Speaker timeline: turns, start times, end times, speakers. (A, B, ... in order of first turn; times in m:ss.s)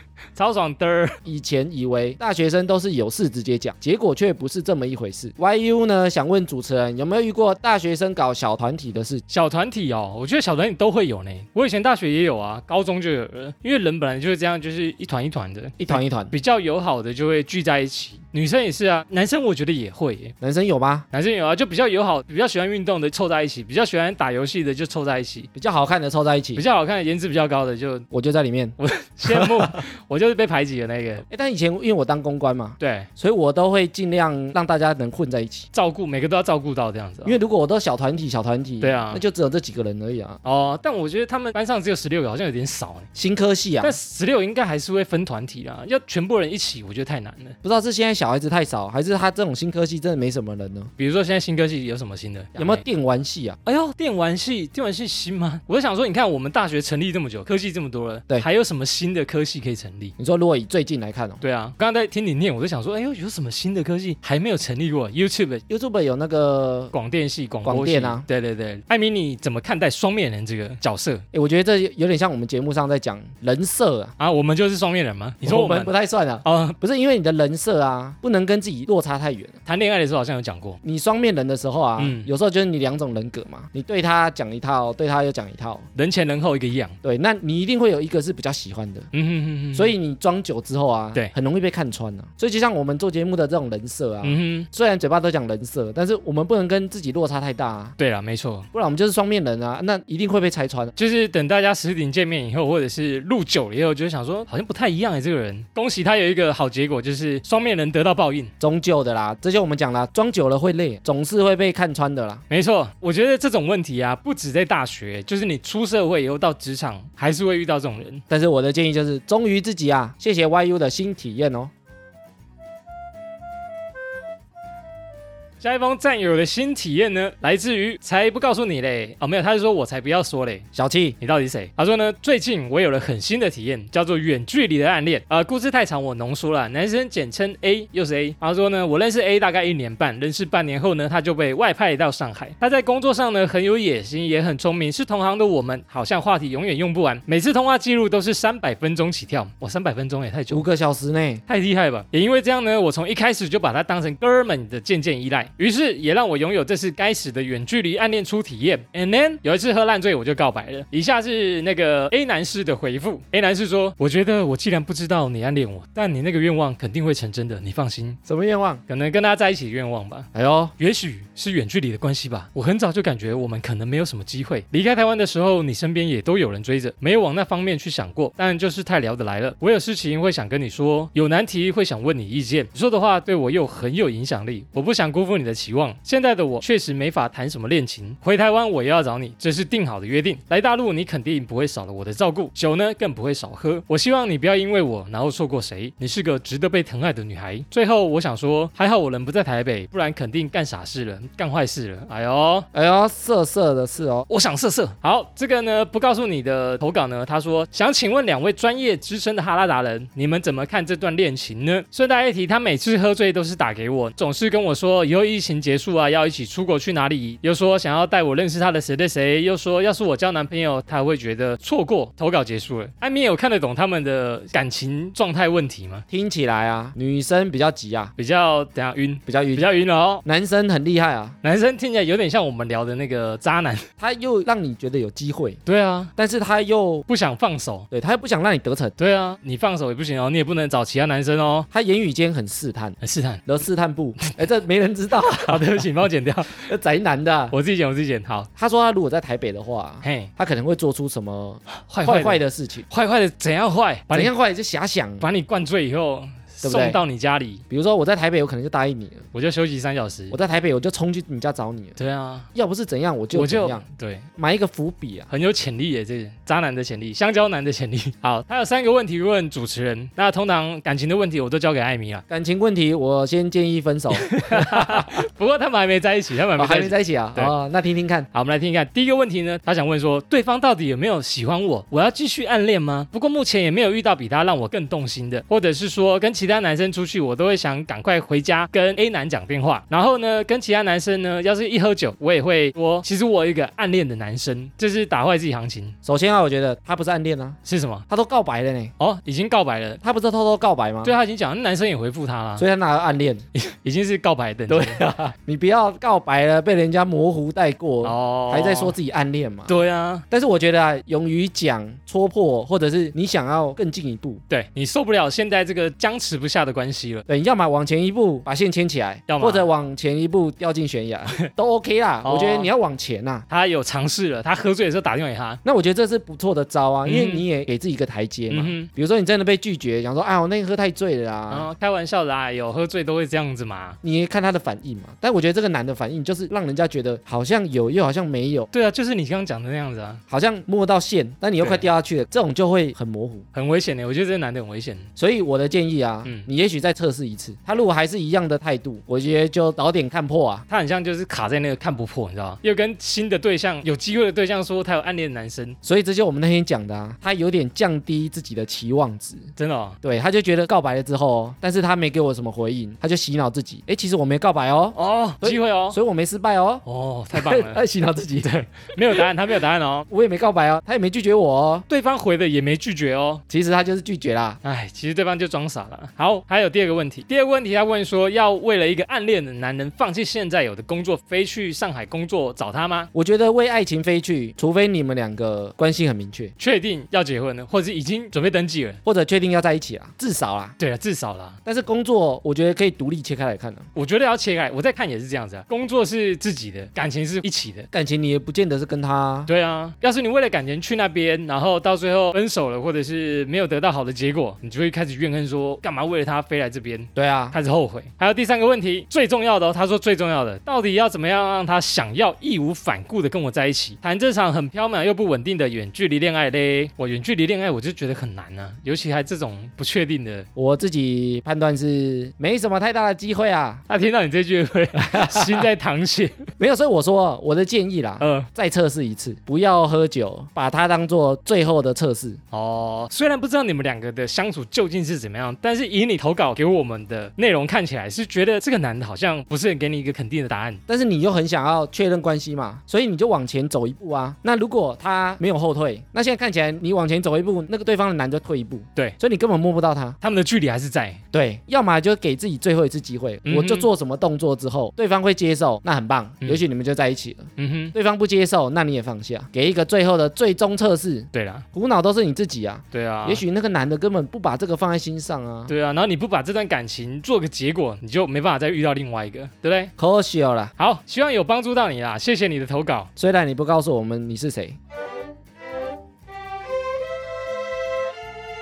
0:00.3-0:01.2 A
0:01.2-0:09.2 B
0:09.3-0:20.3 A
0:15.8-0:16.3 B
0:20.4-0:21.0 B
0:21.1-0:25.5 A
0:25.5-0:26.6 B
0:26.5-0:28.0 A
0:28.1-0:29.6 B
0:28.8-0:31.2 A
0:31.3-0:35.7 B
0:32.8-0:33.1 A
0:35.7-0:37.4 A
0:37.2-0:40.4 B
0:38.8-0:39.2 A
0:40.4-0:43.1 A
0:43.1-0:44.0 B
0:43.8-0:47.6 A
0:47.6-0:50.9 B
0:51.0-0:52.8 A
0:52.6-0:53.6 B
0:53.6-1:00.1 A
1:00.2-1:01.4 B
1:01.4-1:05.6 A
1:05.7-1:06.9 B
1:06.9-1:11.2 A
1:07.6-1:08.2 B
1:11.3-1:14.1 B
1:14.2-1:15.9 A
1:15.4-1:19.6 B
1:16.4-1:16.8 A
1:19.6-1:20.8 A
1:20.8-1:25.8 B
1:22.0-1:22.3 A
1:26.0-1:26.9 A
1:27.0-1:29.1 B
1:29.1-1:29.9 A
1:29.7-1:38.0 B
1:34.2-1:34.7 A
1:38.0-1:38.7 A
1:38.7-1:40.9 B
1:41.0-1:48.5 A
1:48.6-1:52.4 B
1:52.5-1:58.2 A
1:58.3-2:01.7 B
2:05.6-2:10.6 A
2:10.7-2:11.2 B
2:11.2-2:30.7 A
2:30.5-2:31.4 B
2:31.5-2:48.2 A
2:48.2-2:48.8 B
2:48.9-3:22.7 A
2:50.3-2:50.7 B
3:22.7-3:24.3 B
3:24.3-3:46.0 A
3:46.1-3:48.1 B
3:48.2-3:50.2 A
3:49.3-3:49.6 B
3:50.2-3:51.4 B
3:51.4-3:53.9 A
3:54.0-3:55.6 B
3:55.6-3:56.1 A
3:56.2-3:57.1 B
3:57.1-3:57.9 A
3:57.9-3:58.9 B
3:59.0-4:01.7 A
4:01.7-4:05.8 B
4:03.0-4:03.4 A
4:05.3-4:06.7 A
4:06.5-4:07.6 B
4:07.5-4:08.5 A
4:08.6-4:12.8 B
4:10.0-4:10.3 A
4:11.7-4:14.3 A
4:14.1-4:15.2 B
4:15.2-4:17.6 A
4:16.6-4:17.0 B
4:17.7-4:19.3 B
4:19.3-4:20.4 A
4:20.3-4:22.0 B
4:22.0-4:22.5 A
4:22.5-4:23.8 B
4:23.3-4:24.2 A
4:24.4-4:25.3 B
4:25.3-4:32.2 A
4:32.3-4:35.2 B
4:34.1-4:37.5 A
4:36.6-4:38.3 B
4:38.3-4:56.0 A
4:56.0-4:58.9 B
4:57.6-4:58.0 A
4:59.0-5:00.0 A
5:00.0-5:01.1 B
5:01.0-5:02.6 A
5:02.6-5:03.4 B
5:03.5-5:05.0 A
5:04.7-5:09.7 B
5:08.0-5:08.9 A
5:09.7-5:10.2 A
5:10.3-5:14.4 B
5:14.5-5:17.2 A
5:17.3-5:23.4 B
5:19.3-5:19.7 A
5:22.2-5:22.7 A
5:23.5-5:25.6 A
5:25.6-5:31.7 B
5:27.0-5:27.4 A
5:28.5-5:28.9 A
5:31.5-5:34.0 A
5:34.0-5:38.7 B
5:38.7-5:40.2 A
5:40.3-5:43.4 B
5:41.6-5:41.8 A
5:43.5-5:45.0 A
5:45.2-5:50.6 B
5:50.7-5:55.8 A
5:55.8-6:08.5 B
5:59.6-6:00.0 A
6:04.9-6:06.0 A
6:06.8-6:07.8 A
6:08.4-6:10.1 A
6:10.1-6:11.8 B
6:11.9-6:13.4 A
6:13.5-6:14.6 B
6:14.6-6:23.1 A
6:23.1-6:26.5 B
6:26.6-6:29.0 A
6:29.0-6:30.8 B
6:30.8-6:31.6 A
6:31.6-6:33.8 B
6:33.9-6:37.9 A
6:37.9-6:39.5 B
6:39.5-7:00.5 A
6:47.2-6:47.6 B
7:00.6-7:03.8 B
7:03.9-7:06.4 A
7:05.0-7:05.7 B
7:06.6-7:12.4 B
7:08.2-7:08.5 A
7:12.5-7:20.8 A
7:20.9-7:30.2 B
7:30.2-7:31.2 A
7:31.3-7:45.7 B
7:33.4-7:33.9 A
7:37.6-7:37.9 A
7:41.3-7:41.6 A
7:42.9-7:43.4 A
7:45.7-7:49.9 A
7:50.0-7:50.7 B
7:50.8-7:53.1 A
7:53.2-7:54.8 B